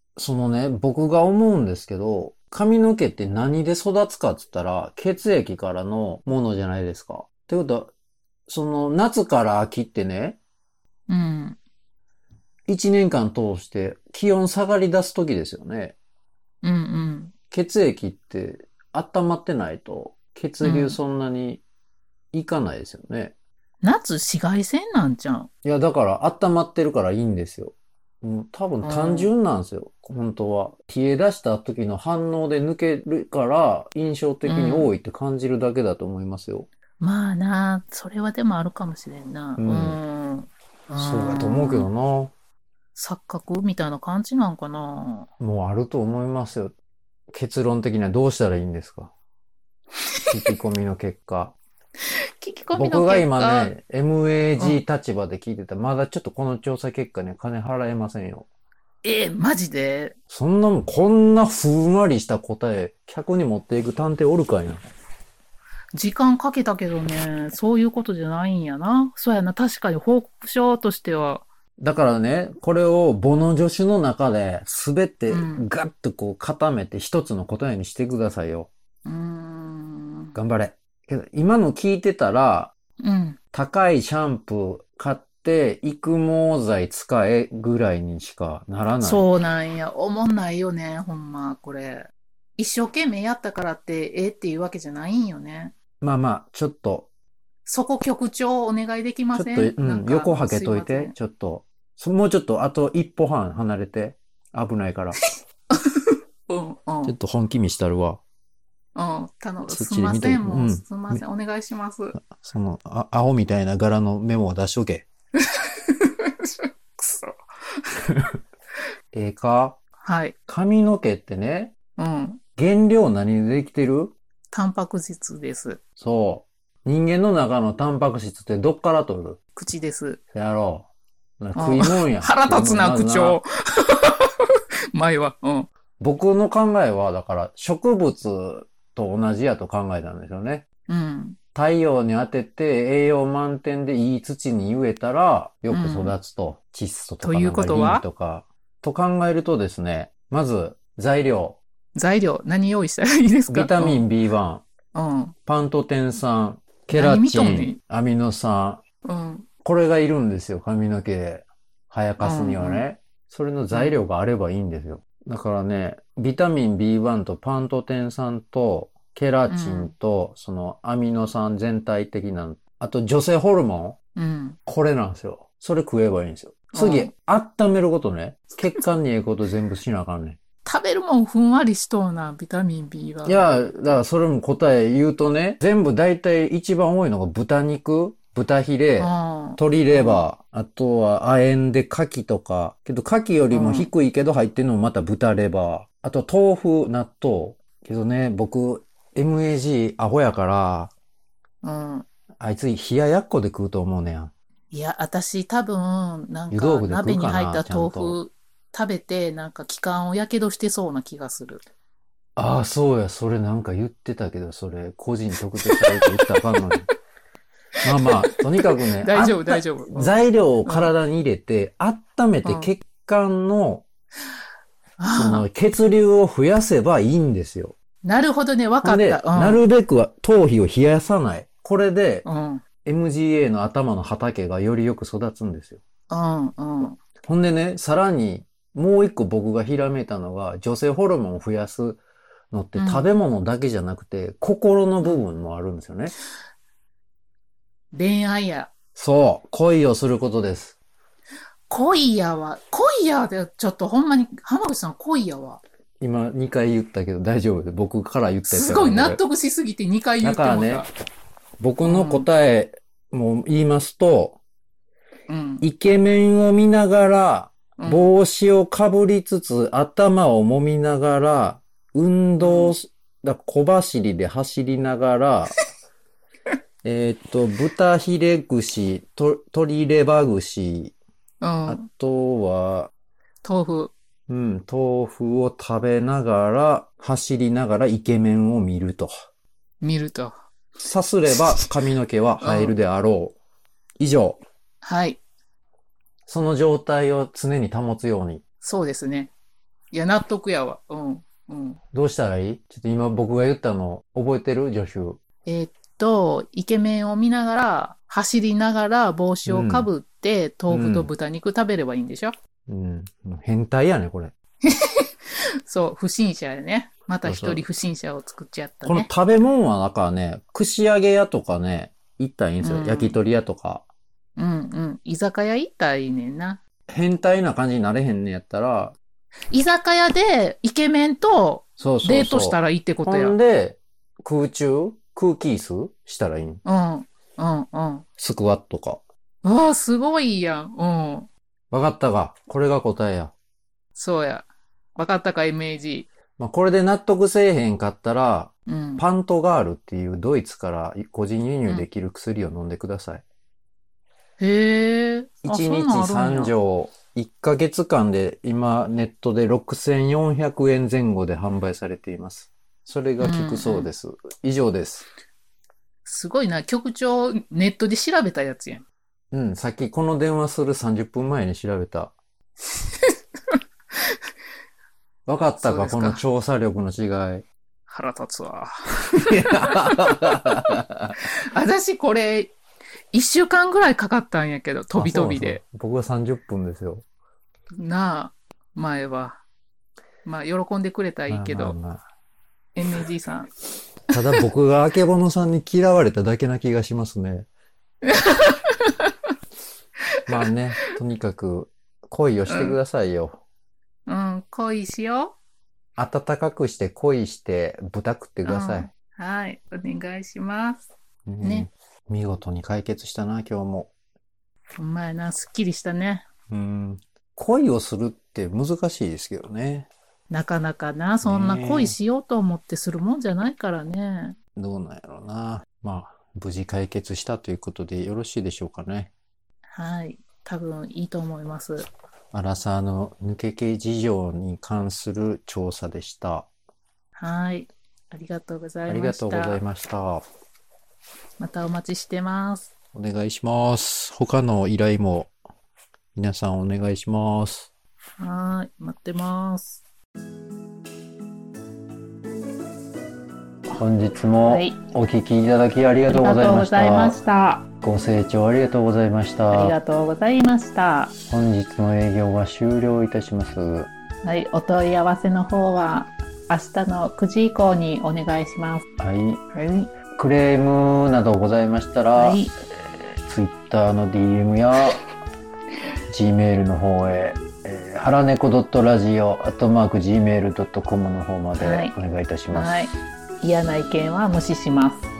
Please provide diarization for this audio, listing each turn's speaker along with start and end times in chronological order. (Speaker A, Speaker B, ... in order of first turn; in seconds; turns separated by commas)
Speaker A: 0.2-7.9, Speaker A: 8.5-10.4, Speaker B: 11.1-11.6, Speaker A: 12.7-15.9, Speaker B: 16.6-17.3, Speaker A: 17.5-21.6, Speaker B: 20.6-21.0, Speaker A: 22.3-23.3, Speaker B: 23.8-25.5, Speaker A: 25.6-36.7, Speaker B: 28.8-29.3, Speaker B: 34.4-34.9, Speaker B: 37.0-41.9, Speaker A: 39.6-40.0, Speaker A: 41.0-42.3, Speaker B: 42.9-45.3, Speaker A: 45.4-46.7, Speaker A: 47.3-49.1, Speaker B: 50.2-50.5, Speaker A: 50.3-51.5, Speaker B: 52.4-53.7, Speaker A: 52.7-58.5, Speaker B: 59.0-60.1, Speaker A: 60.3-64.8, Speaker B: 65.9-71.4, Speaker A: 71.8-78.7, Speaker B: 75.3-75.7, Speaker B: 79.0-80.3, Speaker A: 80.3-82.7, Speaker B: 83.0-83.4, Speaker A: 83.5-89.3, Speaker B: 89.0-95.7, Speaker A: 96.0-97.1, Speaker B: 97.7-101.1, Speaker A: 99.3-105.2, Speaker B: 105.2-107.1, Speaker A: 107.0-108.2, Speaker B: 108.9-112.2, Speaker A: 109.7-111.2, Speaker A: 112.2-115.0, Speaker B: 115.4-118.0, Speaker A: 119.1-119.8, Speaker B: 120.0-120.3, Speaker A: 120.5-121.8, Speaker B: 122.0-122.4, Speaker A: 122.6-124.1, Speaker B: 124.5-125.8, Speaker A: 126.0-129.4, Speaker B: 129.6-130.2, Speaker A: 130.3-130.9, Speaker A: 131.4-133.4, Speaker B: 131.5-135.7, Speaker A: 136.0-140.6, Speaker B: 140.9-141.4, Speaker A: 141.5-151.6, Speaker B: 145.7-146.2, Speaker B: 147.2-148.0, Speaker B: 151.9-154.1, Speaker A: 153.5-154.6, Speaker B: 154.9-155.3, Speaker A: 155.4-158.8, Speaker B: 156.9-157.8, Speaker B: 159.0-159.5, Speaker A: 159.6-173.9, Speaker B: 162.2-162.8, Speaker B: 163.7-163.9, Speaker B: 169.5-169.9, Speaker B: 174.2-174.6, Speaker A: 174.7-180.4, Speaker B: 176.7-177.1, Speaker B: 180.6-183.6, Speaker A: 183.2-200.9, Speaker B: 189.0-190.2, Speaker B: 193.5-193.9, Speaker B: 201.6-202.1, Speaker A: 202.4-204.3, Speaker B: 204.7-211.6, Speaker A: 206.5-208.2, Speaker A: 212.3-216.9, Speaker B: 215.6-216.3, Speaker B: 217.8-220.9, Speaker A: 217.8-223.8, Speaker B: 222.4-222.7, Speaker B: 225.0-225.4, Speaker A: 225.1-227.8, Speaker B: 228.0-229.6, Speaker A: 228.8-232.2, Speaker B: 232.2-232.6, Speaker A: 232.8-235.8, Speaker B: 236.1-237.0, Speaker A: 237.2-246.1, Speaker B: 242.8-243.1, Speaker B: 247.9-248.7, Speaker A: 248.9-250.7, Speaker B: 251.7-255.6, Speaker A: 256.0-259.2, Speaker B: 258.4-260.9, Speaker A: 260.2-260.9, Speaker A: 261.6-264.4, Speaker B: 261.8-262.3, Speaker B: 265.3-265.6, Speaker A: 265.6-275.6, Speaker B: 267.8-268.1, Speaker B: 272.4-272.7, Speaker A: 276.8-280.9, Speaker B: 281.4-281.9, Speaker A: 281.6-282.9, Speaker B: 283.4-283.9, Speaker A: 284.3-289.1, Speaker B: 289.8-290.4, Speaker A: 290.8-293.3, Speaker B: 292.4-292.7, Speaker A: 294.0-294.4, Speaker B: 294.8-295.2, Speaker A: 296.3-298.4, Speaker B: 298.6-299.3, Speaker B: 299.9-301.8, Speaker A: 301.9-305.2, Speaker B: 305.4-312.3, Speaker A: 309.4-309.9, Speaker A: 310.7-311.1, Speaker A: 312.7-314.3, Speaker B: 314.6-319.1, Speaker A: 317.2-317.6, Speaker A: 318.8-323.8, Speaker B: 322.6-323.2, Speaker B: 324.4-326.6, Speaker A: 326.9-328.9, Speaker B: 329.5-333.4, Speaker A: 331.8-336.6, Speaker B: 336.6-338.0, Speaker A: 338.2-339.0, Speaker B: 339.4-341.3, Speaker A: 341.7-343.3, Speaker B: 343.9-346.1, Speaker A: 346.4-353.2, Speaker B: 348.7-349.0, Speaker B: 354.4-356.5, Speaker A: 355.4-365.1, Speaker B: 363.2-363.9, Speaker B: 366.0-368.8, Speaker A: 369.3-372.1, Speaker B: 372.7-374.2, Speaker A: 375.3-377.4, Speaker B: 375.6-376.2, Speaker B: 377.9-382.5, Speaker A: 379.1-381.2, Speaker B: 383.1-385.6, Speaker A: 384.9-387.0, Speaker B: 387.8-389.4, Speaker B: 390.2-391.8, Speaker A: 391.3-392.0, Speaker B: 392.8-393.5, Speaker A: 394.1-397.5, Speaker B: 394.1-394.4, Speaker B: 398.0-399.1, Speaker A: 400.3-403.4, Speaker B: 402.5-402.8, Speaker B: 404.1-405.4, Speaker A: 406.0-408.9, Speaker B: 408.4-410.9, Speaker A: 411.2-413.9, Speaker B: 411.4-411.7, Speaker B: 414.8-416.3, Speaker A: 416.5-419.9, Speaker B: 420.3-424.4, Speaker A: 421.2-422.0, Speaker A: 424.6-429.1, Speaker B: 429.7-431.9, Speaker A: 432.3-436.5, Speaker B: 437.2-439.6, Speaker A: 438.9-440.2, Speaker B: 441.4-442.7, Speaker A: 442.9-445.3, Speaker A: 446.1-447.7, Speaker B: 448.2-449.8, Speaker A: 453.7-457.2, Speaker B: 454.4-454.8, Speaker B: 456.1-457.7, Speaker A: 457.8-459.7, Speaker B: 459.5-461.1, Speaker A: 461.3-463.9, Speaker B: 464.2-468.9, Speaker A: 469.0-469.4, Speaker B: 469.5-469.9, Speaker A: 470.1-475.0, Speaker B: 472.1-472.5, Speaker A: 476.1-482.8, Speaker B: 481.6-481.9, Speaker B: 482.5-485.1